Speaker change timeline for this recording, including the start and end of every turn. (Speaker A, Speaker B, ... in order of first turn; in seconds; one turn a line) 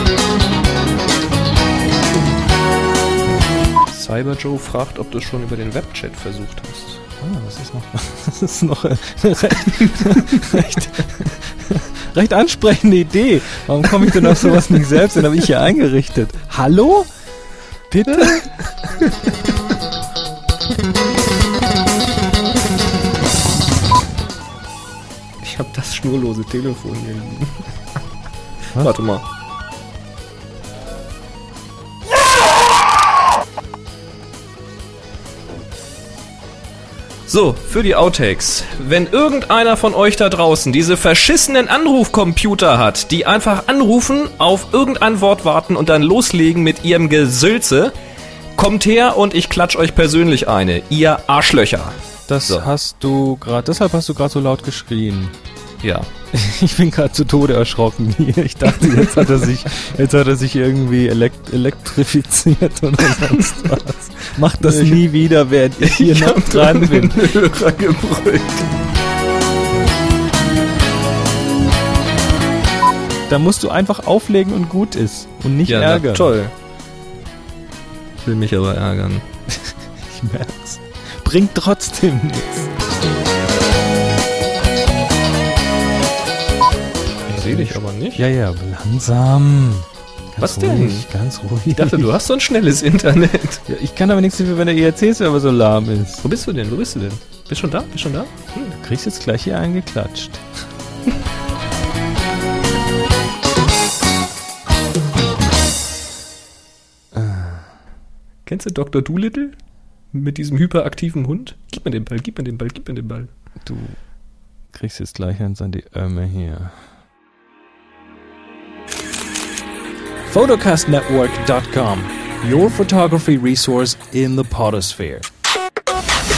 Speaker A: 3.9-7.0
Speaker B: 7.2-17.1
Speaker A: 9.9-10.4
Speaker A: 14.0-14.6
Speaker B: 17.9-18.5
Speaker A: 18.1-19.1
Speaker A: 25.4-27.7
Speaker A: 28.8-29.3
Speaker A: 37.3-47.9
Speaker A: 48.6-52.7
Speaker B: 52.3-55.4
Speaker A: 55.8-56.1
Speaker B: 56.3-67.3
Speaker A: 58.7-59.4
Speaker A: 63.2-63.8
Speaker A: 64.6-65.0
Speaker A: 65.8-68.7
Speaker B: 73.3-76.3
Speaker A: 75.7-76.5
Speaker A: 78.2-79.2
Speaker B: 79.5-82.8
Speaker A: 87.3-88.3
Speaker B: 87.3-92.1
Speaker A: 90.4-91.1
Speaker A: 91.7-93.6
Speaker B: 93.7-96.2
Speaker A: 96.2-98.7
Speaker B: 98.7-100.5
Speaker B: 107.1-107.7
Speaker A: 108.5-109.6
Speaker A: 110.1-113.3
Speaker B: 113.6-114.0
Speaker B: 114.7-116.8
Speaker B: 120.3-125.3